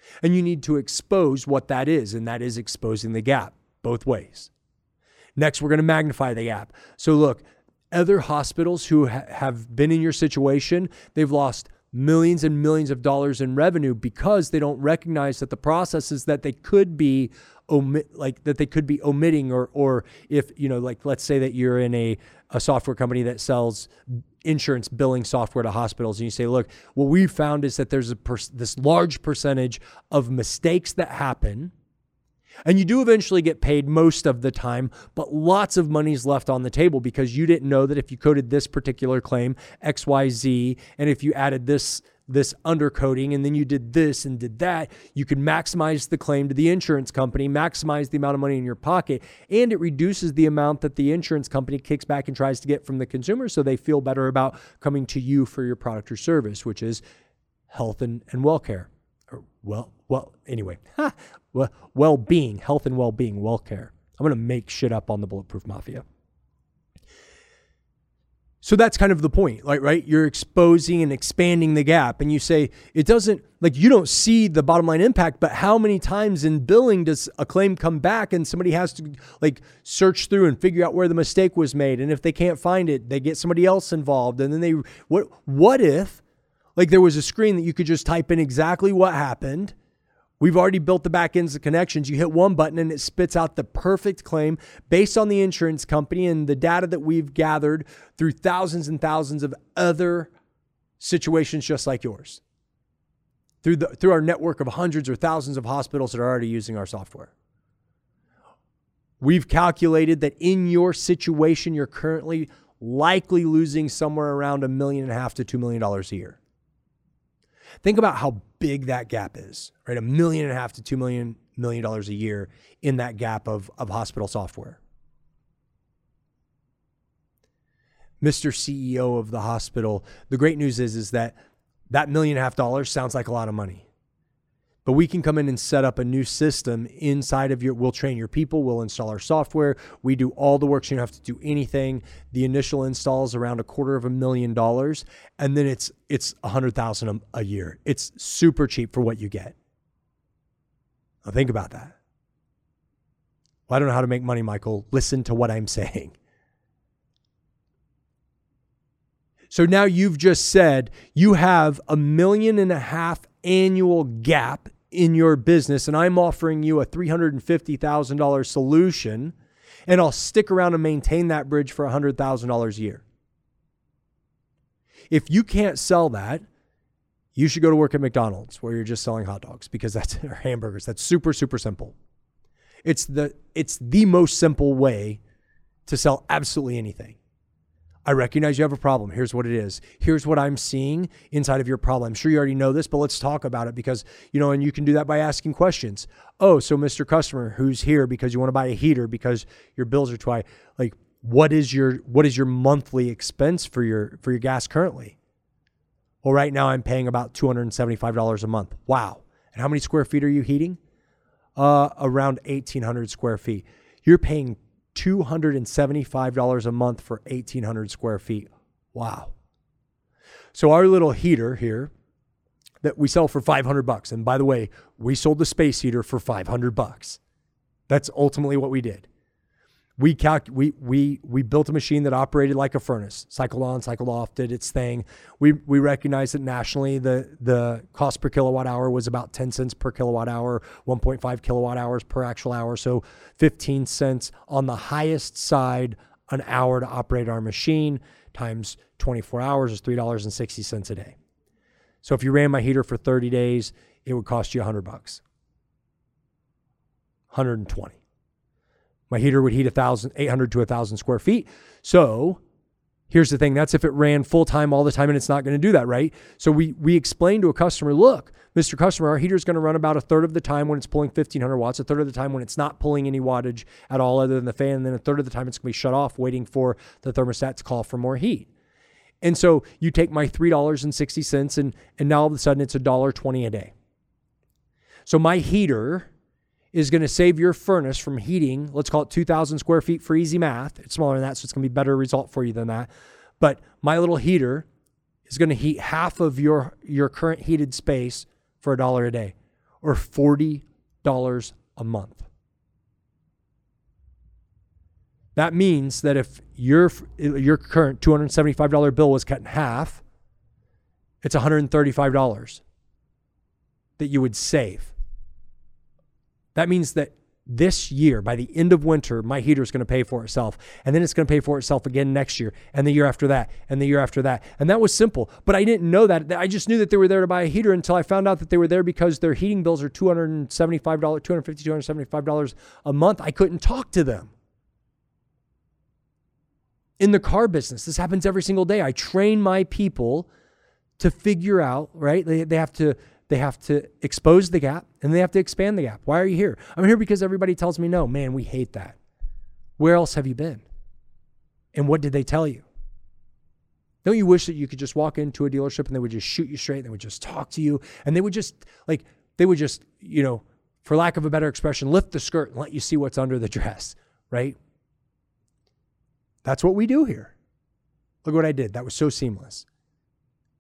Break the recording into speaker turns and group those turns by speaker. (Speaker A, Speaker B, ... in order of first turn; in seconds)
Speaker A: 0.2-4.5, 5.4-23.9, 24.4-31.7, 32.6-57.0, 57.7-66.0, 68.6-86.2, 86.8-89.8, 90.4-100.3, 101.0-102.4, 103.6-107.3, 109.2-116.4, 117.8-124.8, 128.2-131.4, 131.9-133.9, 134.8-149.6, 151.2-152.0, 153.7-156.2, 159.5-169.3, 169.9-173.0, 175.1-176.4, 177.3-182.0, 182.8-185.2, 185.9-187.2, 188.1-205.2, 206.2-210.8, 211.6-219.3, 220.5-221.9, 222.8-227.2, 227.9-229.1, 230.0-251.2, 252.0-255.2, 257.3-258.0, 259.1-262.4, 263.1-278.5, 279.2-283.7, 285.1-286.1, 286.7-294.7, 295.3-302.3, 305.4-310.0, 311.2-312.6, 314.0-314.9, 316.6-334.3, 337.0-340.3, 341.0-349.0, 349.8-350.6, 351.7-352.7, 354.0-364.6, 366.4-367.4, 368.2-369.7